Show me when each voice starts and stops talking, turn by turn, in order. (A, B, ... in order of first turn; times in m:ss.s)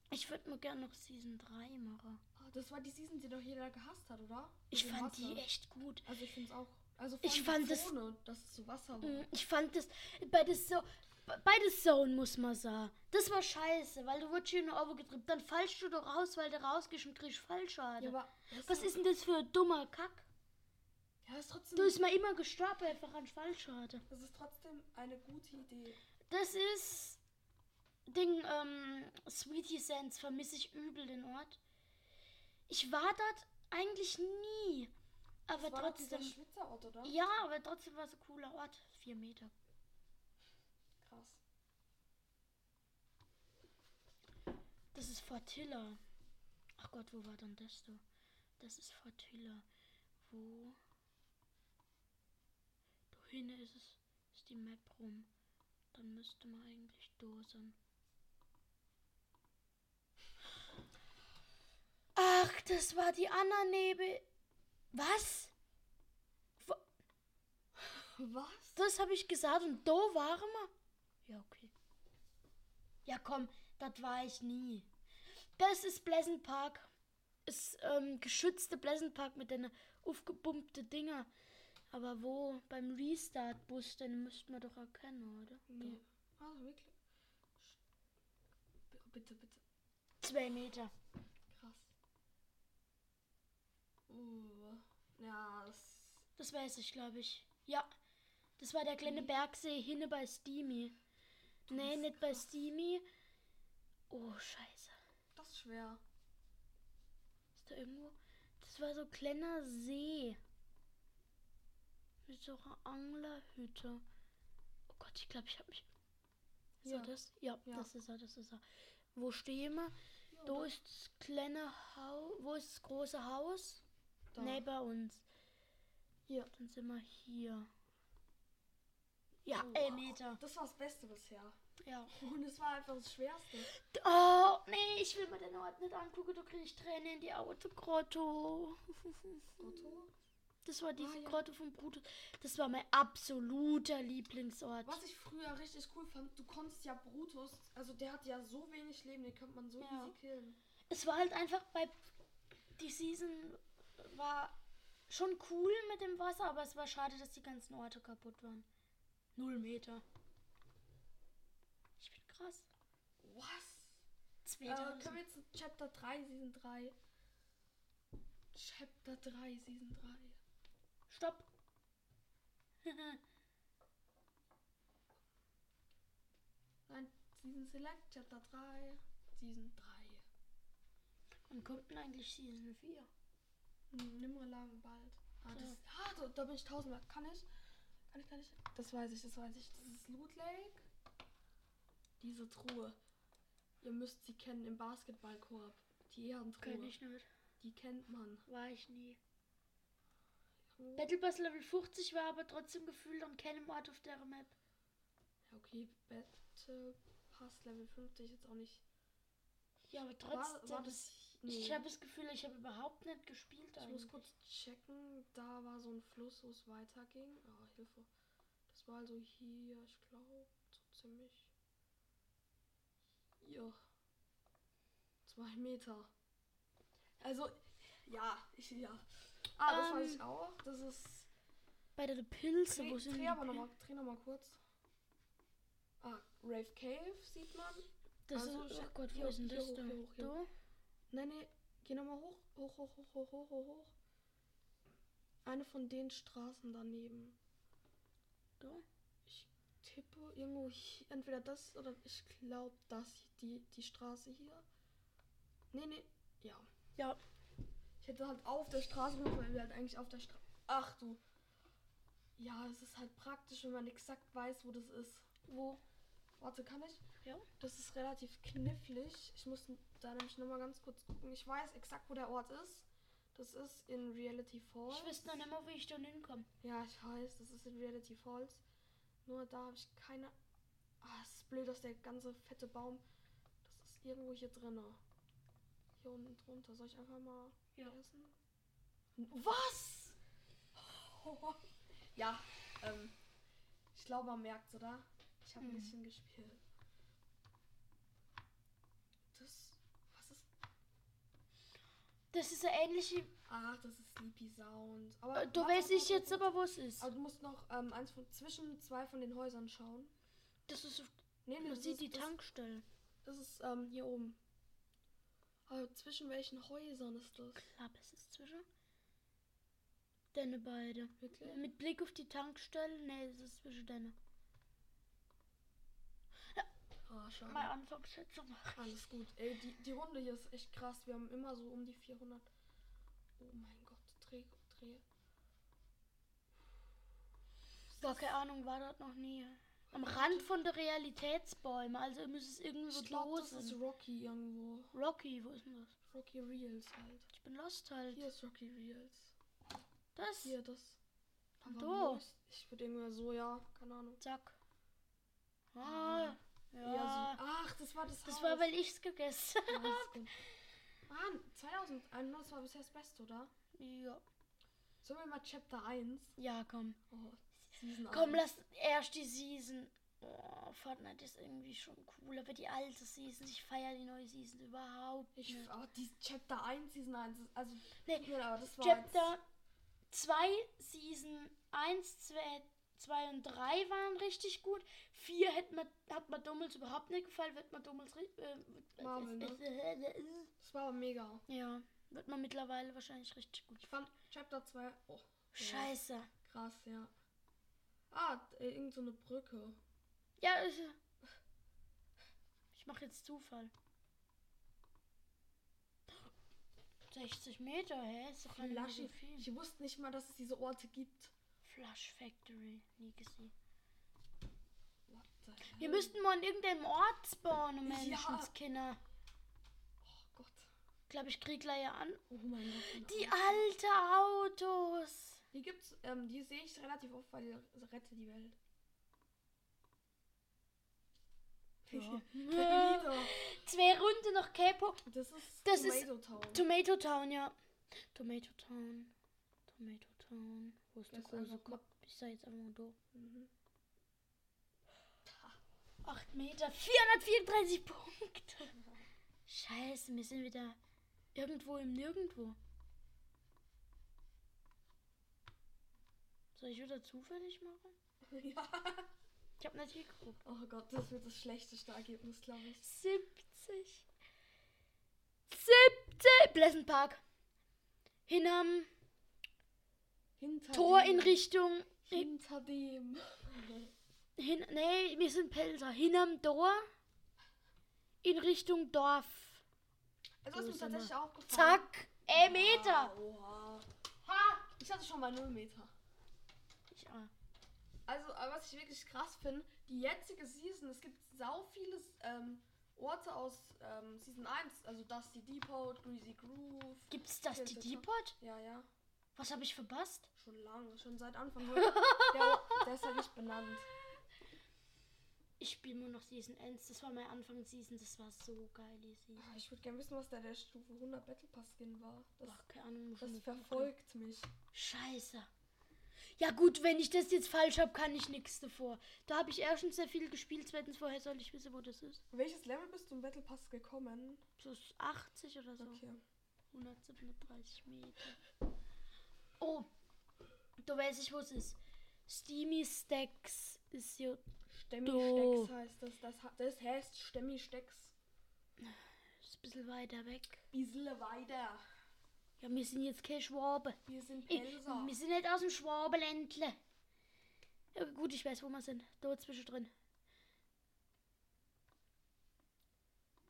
0:00.1-0:02.2 A
0:02.4-0:05.4 B
0:04.7-0:06.0 A
0:06.0-0:09.3 B
0:07.2-0:07.9 A
0:09.0-0:20.3 A
0:18.0-0:19.0 B
0:21.2-0:22.0 B
0:21.8-0:24.0 A
0:24.1-0:26.0 B
0:26.3-0:27.2 A
0:28.1-0:31.6 A
0:32.7-0:34.9 A
0:35.5-0:36.4 A
0:35.5-0:37.2 B
0:37.0-0:39.5 A
0:41.0-0:41.4 B
0:44.9-0:46.0 A
0:46.8-0:48.0 A
0:48.6-0:49.6 A
0:50.2-0:50.8 A
0:53.1-0:55.3 A
0:55.9-0:57.7 A
1:02.1-1:04.2 A
1:04.9-1:05.5 A
1:07.8-1:08.8 B
1:08.8-1:10.7 A
1:11.2-1:11.7 A
1:13.0-1:14.9 A
1:15.6-1:16.9 A
1:17.4-1:21.3 A
1:21.9-1:26.0 A
1:25.7-1:26.9 B
1:28.9-1:29.6 B
1:30.2-1:30.9 A
1:31.5-1:31.9 B
1:34.1-1:36.2 B
1:36.4-1:37.9 A
1:38.6-1:41.0 A
1:39.0-1:39.3 B
1:41.7-1:42.5 B
1:41.7-1:43.0 A
1:44.1-1:44.9 A
1:45.3-1:46.0 B
1:47.5-1:50.4 A
1:52.2-1:54.0 A
1:54.9-1:55.9 A
1:56.8-1:58.6 A
1:56.8-1:57.1 B
1:59.1-2:03.8 A
2:00.3-2:00.7 B
2:04.3-2:04.6 B
2:04.4-2:05.2 A
2:06.5-2:07.7 A
2:09.4-2:10.4 A
2:09.5-2:11.6 B
2:11.8-2:12.1 A
2:12.1-2:13.7 B
2:13.6-2:19.9 A
2:19.6-2:20.1 B
2:20.6-2:25.0 A
2:21.0-2:21.4 B
2:24.8-2:30.6 B
2:29.8-2:30.1 A
2:30.9-2:31.9 A
2:32.8-2:34.6 A
2:35.1-2:38.6 A
2:39.4-2:40.0 A
2:42.0-2:42.7 A
2:43.2-2:44.0 B
2:44.4-2:45.2 A
2:44.6-2:47.0 B
2:48.5-2:50.4 B
2:51.1-2:51.5 A
2:52.8-2:53.2 A
2:56.9-3:00.2 B
3:01.5-3:03.1 A
3:03.9-3:07.4 B
3:05.5-3:05.8 A
3:08.1-3:10.8 B
3:12.2-3:13.0 B
3:13.8-3:17.0 B
3:16.6-3:17.3 A
3:17.6-3:18.4 B
3:18.5-3:19.2 A
3:20.7-3:21.1 B
3:21.0-3:24.5 A
3:25.5-3:28.8 B
3:29.9-3:34.3 A
3:30.2-3:31.8 B
3:33.8-3:38.1 B
3:38.7-3:41.5 B
3:43.4-3:43.8 B
3:45.2-3:46.1 B
3:47.2-3:51.3 B
3:49.6-3:50.2 A
3:52.0-3:53.7 A
3:52.7-3:54.6 B
3:56.0-4:00.4 B
3:58.3-4:00.5 A
4:01.1-4:03.9 B
4:05.4-4:07.4 B
4:09.2-4:14.6 B
4:15.7-4:16.7 B
4:18.0-4:21.2 B
4:22.4-4:25.3 B
4:25.5-4:25.8 A
4:26.4-4:27.0 B
4:27.6-4:35.3 B
4:34.9-4:36.5 A
4:36.6-4:38.6 B
4:39.2-4:40.4 B
4:41.0-4:43.0 B
4:43.6-4:45.0 B
4:46.0-4:48.3 B
4:49.2-4:50.2 B
4:50.7-4:51.6 B
4:52.1-4:53.2 B
4:53.9-4:56.6 B
4:55.6-4:55.9 A
4:59.3-5:00.5 B
5:02.3-5:03.3 A
5:03.5-5:10.1 B
5:05.3-5:07.1 A
5:10.7-5:12.8 A
5:11.4-5:12.3 B
5:13.2-5:14.4 B
5:15.7-5:17.6 B
5:17.6-5:18.6 A
5:20.3-5:24.1 A
5:21.2-5:21.6 B
5:27.1-5:27.7 B
5:27.4-5:28.9 A
5:28.8-5:32.5 B
5:33.4-5:35.0 B
5:38.0-5:43.8 A
5:39.9-5:40.5 B
5:42.9-5:44.9 B
5:44.9-5:45.9 A
5:46.1-5:47.3 B
5:47.3-5:48.3 A
5:48.1-5:49.3 B
5:50.2-5:50.5 A
5:50.4-5:51.0 B
5:51.6-5:54.2 B
5:51.6-5:52.2 A
5:54.2-5:54.6 A
5:55.7-5:57.4 A
5:55.8-5:58.7 B
5:58.2-6:00.3 A
5:59.7-6:00.3 B
6:01.1-6:03.5 B
6:03.7-6:04.2 A
6:05.0-6:06.4 B
6:06.4-6:07.0 A
6:07.1-6:08.5 B
6:08.1-6:15.7 A
6:15.4-6:19.3 B
6:18.0-6:19.4 A
6:20.1-6:30.5 A
6:29.0-6:29.6 B
6:30.6-6:31.4 B
6:31.5-6:33.9 A
6:33.8-6:37.1 B
6:35.5-6:36.3 A
6:38.1-6:39.8 B
6:40.4-6:41.0 A
6:42.7-6:43.7 A
6:47.1-6:49.5 A
6:48.5-6:51.3 B
6:51.6-6:53.5 A
6:55.1-6:56.2 B
6:55.8-6:59.0 A
6:57.8-6:58.5 B
7:00.0-7:00.7 B
7:01.1-7:05.4 A
7:02.3-7:03.7 B
7:05.5-7:08.6 B
7:11.8-7:13.4 B
7:11.9-7:15.0 A
7:15.0-7:16.6 B
7:15.6-7:17.6 A
7:18.1-7:19.1 A
7:19.7-7:23.0 A
7:21.1-7:21.8 B
7:23.1-7:23.5 B
7:25.2-7:25.6 B
7:26.0-7:28.8 A
7:29.4-7:30.8 A
7:31.3-7:32.6 A
7:36.6-7:37.9 A
7:38.2-7:39.1 B
7:39.6-7:40.4 A
7:40.4-7:42.9 B
7:42.8-7:44.0 A
7:45.5-7:47.2 A
7:48.3-7:48.9 A
7:50.4-7:51.4 B
7:50.7-7:52.3 A
7:52.0-7:53.9 B
7:54.4-7:56.9 A
7:58.2-7:59.6 A
8:00.4-8:05.9 B
8:00.5-8:03.1 A
8:06.9-8:07.3 A
8:08.1-8:18.9 B
8:17.1-8:18.3 A
8:19.4-8:20.3 A
8:20.4-8:23.9 B
8:21.7-8:22.8 A
8:25.6-8:29.5 A
8:29.4-8:32.6 B
8:32.4-8:33.9 A
8:33.2-8:34.5 B
8:34.7-8:35.5 A
8:36.4-8:42.2 A
8:42.3-8:44.4 B
8:44.6-8:46.0 A
8:45.8-8:46.2 B
8:46.7-8:48.4 A
8:49.6-8:49.9 A
8:50.8-8:54.4 A
8:54.7-8:58.1 B
8:55.0-8:55.7 A
8:58.8-9:00.6 A
9:00.7-9:01.8 B
9:02.6-9:06.8 A
9:04.0-9:05.2 B
9:07.9-9:09.9 A